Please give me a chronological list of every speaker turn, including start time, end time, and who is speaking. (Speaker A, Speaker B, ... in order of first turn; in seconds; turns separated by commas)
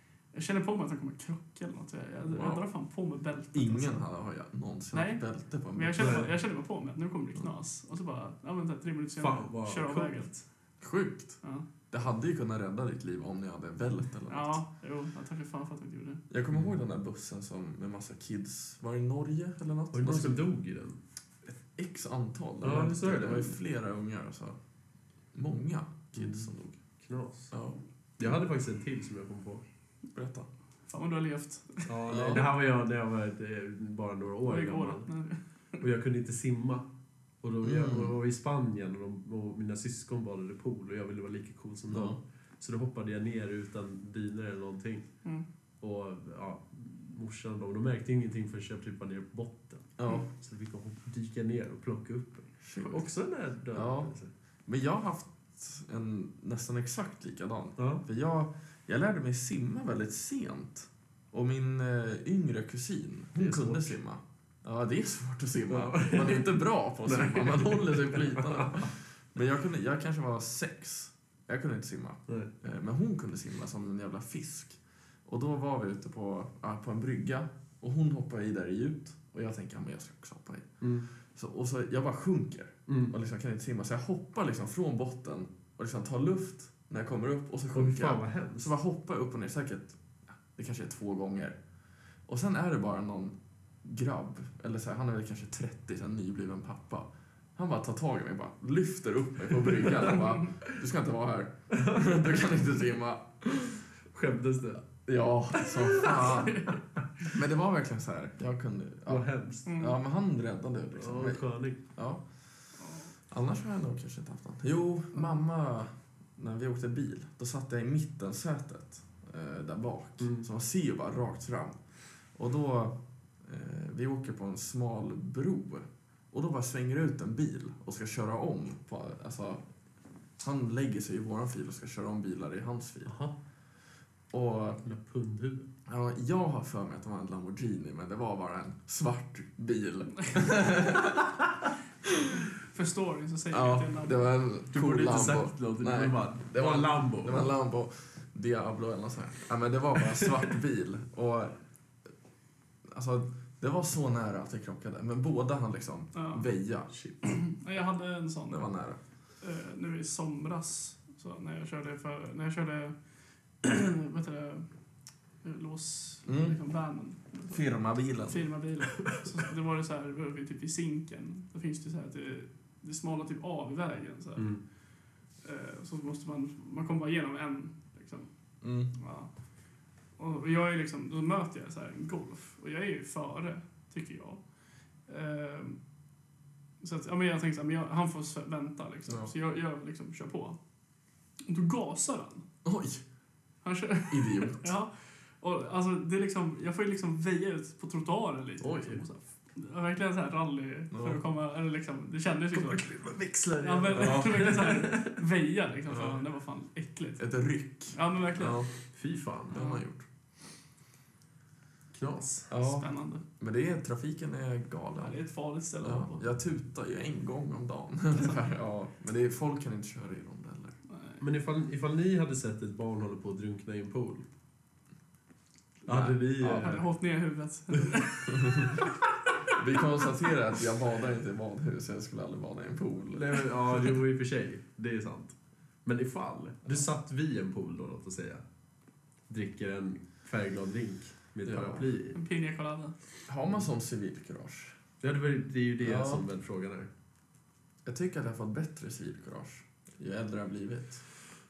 Speaker A: 0.3-4.0, Speaker B: 2.2-2.6, Speaker B: 3.5-6.3, Speaker A: 4.9-10.3, Speaker C: 6.0-6.3, Speaker C: 9.2-10.4, Speaker B: 10.8-11.4, Speaker B: 11.9-14.6, Speaker A: 14.3-16.2, Speaker B: 16.3-20.4, Speaker C: 19.9-21.0, Speaker B: 21.4-24.6, Speaker C: 22.6-23.5, Speaker B: 25.3-26.8, Speaker C: 26.1-27.5, Speaker B: 27.5-27.8, Speaker C: 28.2-29.6, Speaker B: 30.1-30.5, Speaker A: 30.9-31.9, Speaker C: 31.9-35.1, Speaker B: 32.1-32.5, Speaker A: 34.5-35.4, Speaker C: 35.8-36.9, Speaker C: 37.4-45.1, Speaker B: 37.6-38.1, Speaker B: 41.9-42.2, Speaker C: 45.8-54.3, Speaker B: 50.0-50.3, Speaker B: 52.6-53.0, Speaker B: 53.7-54.1, Speaker B: 54.6-91.6, Speaker C: 57.8-58.0, Speaker C: 63.4-64.0, Speaker C: 65.7-68.9, Speaker C: 80.8-81.1, Speaker C: 82.9-83.1, Speaker C: 87.7-88.7, Speaker B: 92.2-103.9, Speaker C: 101.7-102.4, Speaker C: 104.1-104.8, Speaker B: 104.9-106.7, Speaker C: 105.7-106.5, Speaker A: 105.9-107.3, Speaker B: 107.2-112.2, Speaker C: 109.1-109.7, Speaker A: 109.7-110.0, Speaker C: 111.0-111.8, Speaker A: 112.8-113.1, Speaker B: 113.3-121.8, Speaker C: 120.2-120.5, Speaker B: 122.3-129.6, Speaker B: 130.4-133.1, Speaker C: 133.1-133.3, Speaker B: 134.3-134.8, Speaker C: 134.8-135.7, Speaker B: 135.9-141.3, Speaker B: 142.0-142.4, Speaker A: 142.6-144.3, Speaker B: 143.5-151.6, Speaker C: 144.7-147.5, Speaker B: 152.9-156.9, Speaker A: 156.1-156.5, Speaker A: 157.2-158.6, Speaker B: 158.5-159.0, Speaker A: 159.4-162.9, Speaker A: 163.6-164.7, Speaker A: 165.4-167.6, Speaker B: 166.3-166.6, Speaker B: 167.5-168.5, Speaker A: 168.2-174.5, Speaker C: 174.4-174.6, Speaker A: 175.4-178.3, Speaker B: 178.6-178.9, Speaker A: 178.9-179.3, Speaker A: 180.2-184.4, Speaker A: 185.1-185.8, Speaker A: 186.8-190.6, Speaker A: 191.4-192.4, Speaker B: 192.6-193.0, Speaker A: 193.6-202.9, Speaker B: 194.1-194.7, Speaker C: 198.6-199.0, Speaker B: 200.9-201.2, Speaker C: 202.5-205.2, Speaker A: 203.6-207.2, Speaker B: 203.9-204.4, Speaker B: 205.9-206.2, Speaker B: 207.2-208.7, Speaker A: 207.9-208.7, Speaker C: 208.9-209.6, Speaker B: 209.5-210.1, Speaker A: 209.5-209.8, Speaker C: 211.9-212.5, Speaker B: 212.5-215.2, Speaker A: 212.6-213.2, Speaker A: 215.0-216.2, Speaker B: 215.8-220.8, Speaker A: 220.9-221.2, Speaker C: 221.2-224.2, Speaker B: 225.9-226.7, Speaker C: 225.9-226.9, Speaker A: 226.3-228.9, Speaker B: 228.3-228.9, Speaker B: 229.5-233.9, Speaker C: 233.1-238.4, Speaker C: 239.3-242.2, Speaker B: 241.4-241.9, Speaker A: 242.1-242.9, Speaker B: 243.3-244.8, Speaker C: 245.0-246.9, Speaker B: 245.8-246.2, Speaker B: 247.8-251.1